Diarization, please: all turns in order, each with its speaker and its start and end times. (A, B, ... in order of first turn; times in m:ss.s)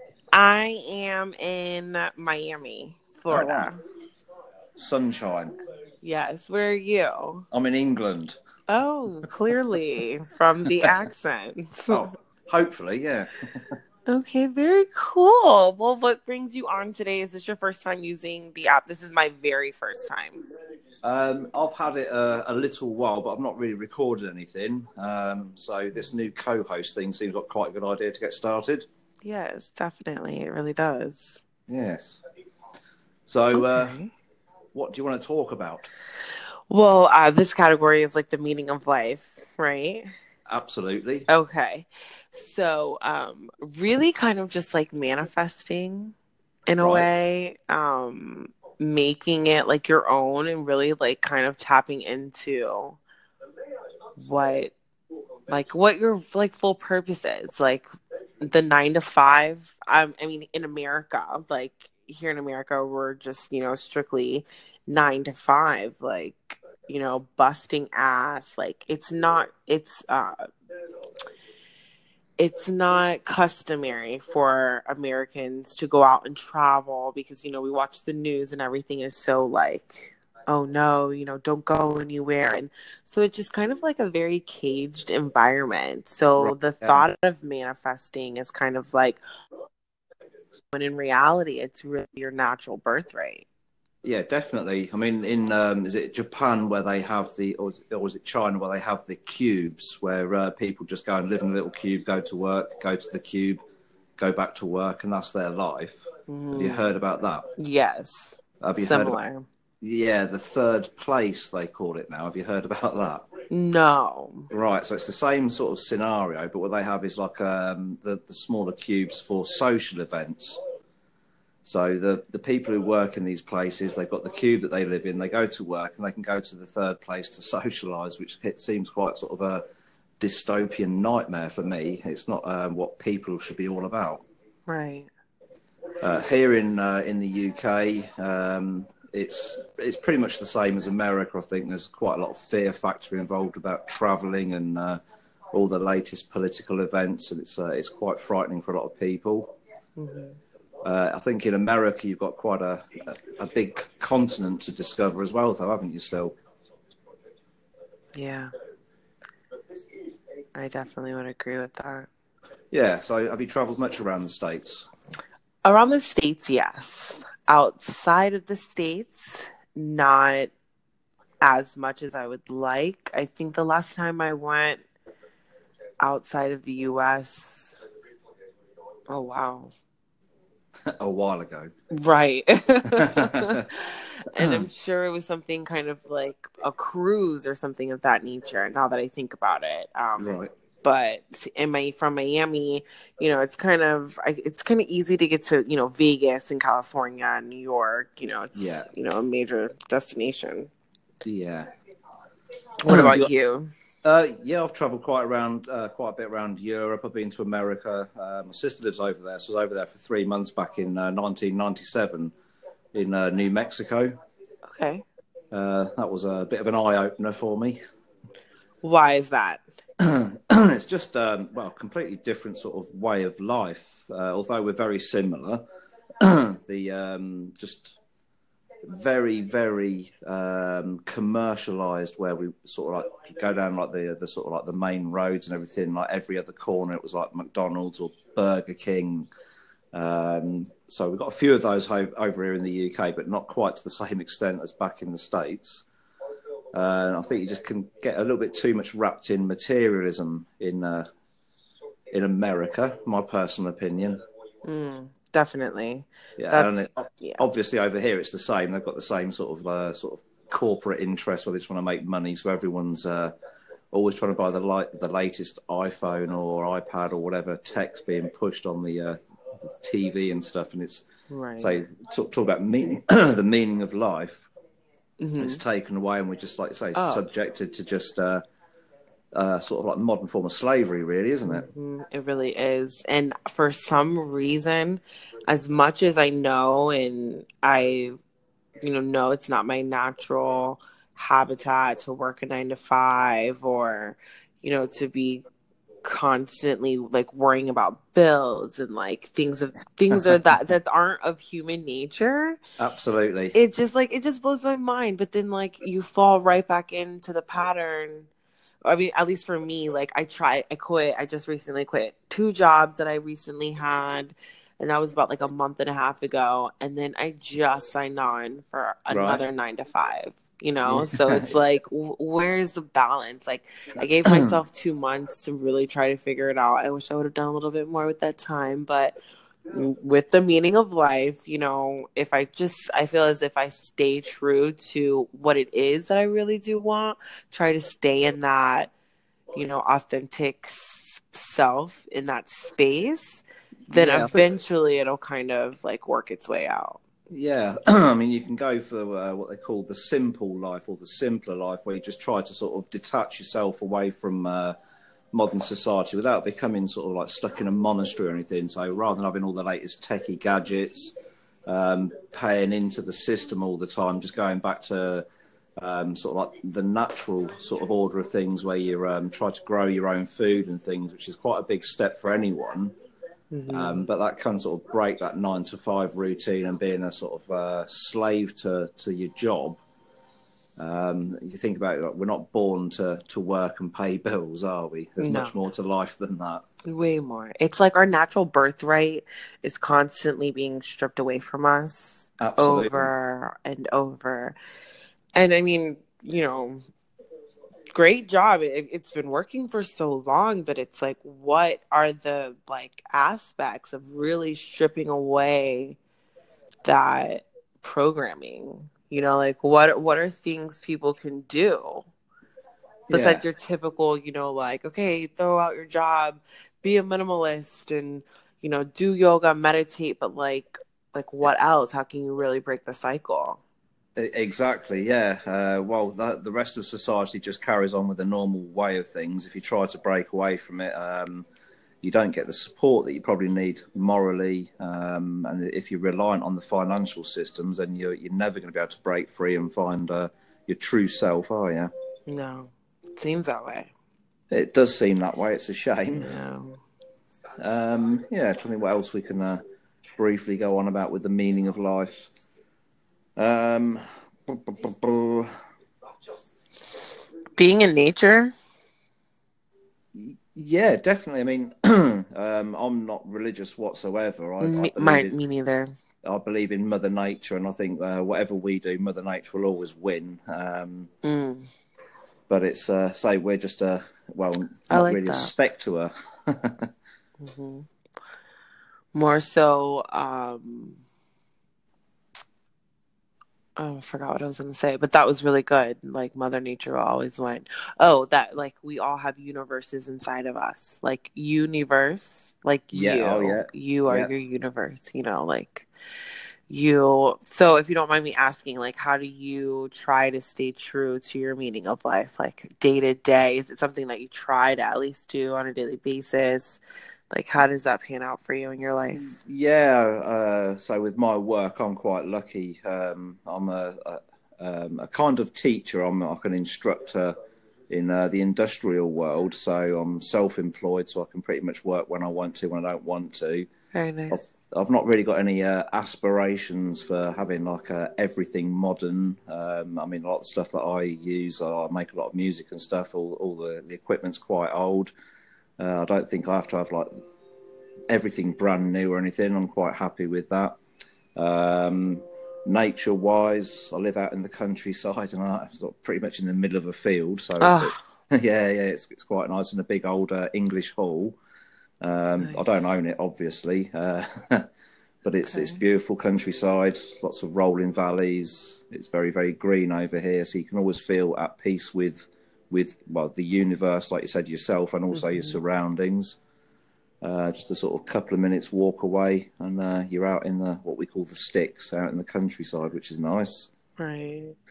0:00.3-0:03.8 A
0:03.3-0:03.7 B
0:04.8-0:05.6 B
0:06.0-0:07.5 A
0:07.5-0:08.4 B
0:08.7-0:12.1 A
0:11.9-0:13.4 B
0:14.1-0:20.4 A
0:21.0-0:28.8 B
0:29.2-0:31.4 A
0:31.7-0:32.2 B
0:33.3-0:34.0 B
0:33.5-0:34.1 A
0:34.7-0:35.9 B
0:36.7-0:40.1 A
0:40.5-0:41.3 B
0:41.3-0:46.1 A
0:46.7-0:53.0 A
0:46.8-0:47.1 B
0:54.2-0:54.7 A
0:55.5-0:57.9 A
0:58.4-1:10.4 A
1:12.4-1:29.2 A
1:26.4-1:27.0 B
1:30.7-1:33.5 A
1:34.0-1:43.6 B
1:44.2-1:47.4 B
1:46.3-1:46.8 A
1:47.6-1:49.4 A
1:48.6-1:49.2 B
1:49.8-1:53.3 B
1:53.5-1:54.5 A
1:54.5-2:00.6 B
2:01.6-2:09.6 B
2:10.2-2:14.2 B
2:14.7-2:15.1 A
2:16.0-2:25.0 B
2:25.5-2:29.5 B
2:30.0-2:30.4 A
2:30.8-2:36.3 B
2:38.1-2:38.5 A
2:40.5-2:42.1 A
2:42.7-2:44.9 B
2:45.6-2:50.5 A
2:51.4-2:54.8 A
2:56.0-2:57.8 A
2:59.1-2:59.7 A
3:00.9-3:01.7 B
3:01.9-3:20.7 A
3:02.9-3:03.6 B
3:10.2-3:10.5 B
3:18.5-3:18.9 B
3:21.2-3:21.7 B
3:22.8-3:23.7 A
3:22.9-3:23.3 B
3:24.0-3:32.3 B
3:32.9-3:34.1 B
3:34.7-3:35.0 A
3:35.5-3:37.8 B
3:38.8-3:39.6 A
3:40.0-3:45.6 B
3:46.2-3:48.0 B
3:48.8-3:59.3 B
3:59.9-4:05.8 B
4:06.7-4:11.0 B
4:12.1-4:14.2 B
4:14.6-4:17.4 A
4:16.4-4:23.3 B
4:23.9-4:31.0 B
4:31.3-4:31.8 A
4:31.6-4:34.5 B
4:35.2-4:35.6 A
4:35.4-4:38.4 B
4:36.9-4:37.2 A
4:39.3-4:41.7 B
4:41.5-4:48.2 A
4:48.8-4:55.4 A
4:56.0-5:02.6 A
5:02.8-5:03.5 B
5:03.5-5:08.3 A
5:08.8-5:29.2 A
5:19.1-5:19.4 B
5:20.8-5:21.6 B
5:24.3-5:24.5 B
5:29.7-5:38.9 A
5:39.5-5:47.0 A
5:43.9-5:44.4 B
5:47.3-5:54.7 B
5:55.3-6:01.1 B
6:01.7-6:05.2 B
6:05.8-6:12.9 B
6:13.5-6:14.0 A
6:13.7-6:19.8 B
6:20.8-6:26.6 B
6:25.2-6:25.6 A
6:26.8-6:34.5 A
6:32.4-6:33.1 B
6:35.3-6:36.8 A
6:37.9-6:46.0 A
6:46.8-6:52.0 A
6:53.1-7:03.6 A
6:53.1-6:53.4 B
7:04.2-7:11.5 B
7:12.0-7:21.9 B
7:22.3-7:23.9 A
7:24.5-7:26.3 B
7:26.2-7:26.8 A
7:27.6-7:29.6 B
7:30.2-7:32.3 B
7:33.4-7:35.5 B
7:37.6-7:38.5 A
7:40.1-7:45.4 B
7:44.6-7:45.9 A
7:46.2-7:51.1 B
7:51.2-7:51.7 A
7:52.5-7:56.9 B
7:54.9-7:55.5 A
7:57.4-7:57.9 A
7:59.1-8:01.0 A
8:03.8-8:15.9 A
8:12.9-8:14.3 B
8:16.7-8:29.4 A
8:29.1-8:37.3 B
8:37.9-8:43.7 B
8:43.9-8:44.4 A
8:44.3-8:55.1 B
8:55.8-8:57.1 B
8:58.1-9:00.7 B
9:01.4-9:11.4 B
9:07.6-9:08.0 A
9:12.0-9:14.7 B
9:15.2-9:26.4 B
9:15.5-9:15.8 A
9:25.1-9:25.6 A
9:27.2-9:33.7 B
9:34.0-9:34.5 A